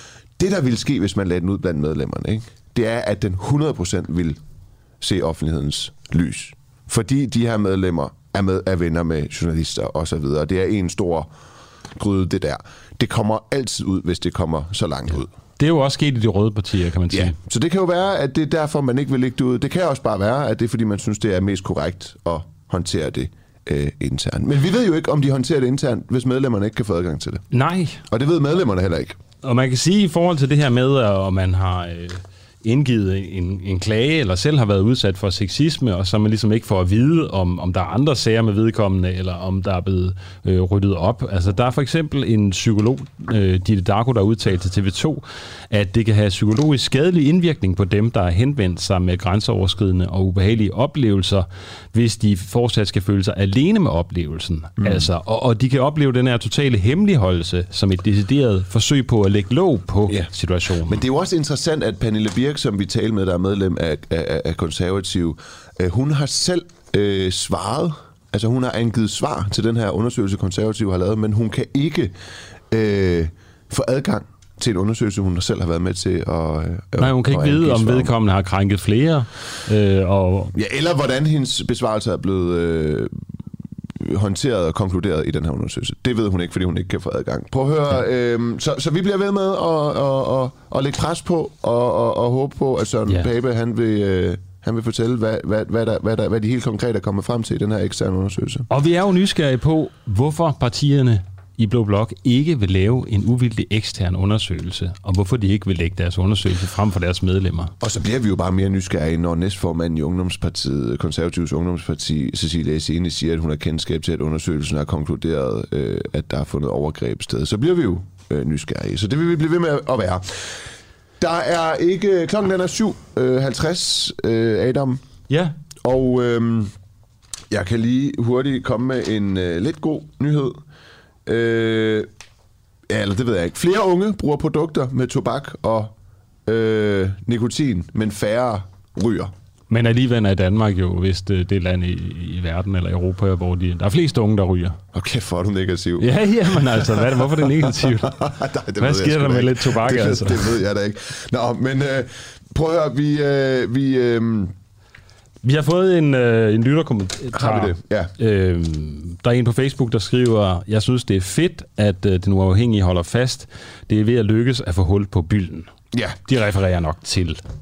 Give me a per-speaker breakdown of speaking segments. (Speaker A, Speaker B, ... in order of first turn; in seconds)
Speaker A: 0.4-4.4, 5.0-11.3, 11.9-15.3, 17.1-27.4, 28.1-29.2, 54.8-55.1, 60.8-72.1, 72.7-78.1, 80.5-83.1, 84.0-98.7, 107.8-120.5, 121.2-125.0, 125.8-126.7, 127.5-130.6, 131.2-132.1, 132.9-135.9, 136.4-139.3, 144.9-154.5, 157.3-158.1
Speaker B: 15.6-17.3, 27.5-28.0, 29.4-61.0, 77.0-80.5, 98.7-107.7, 125.3-125.5, 139.7-144.8, 146.0-148.2, 148.8-150.6, 155.4-165.7, 166.2-167.4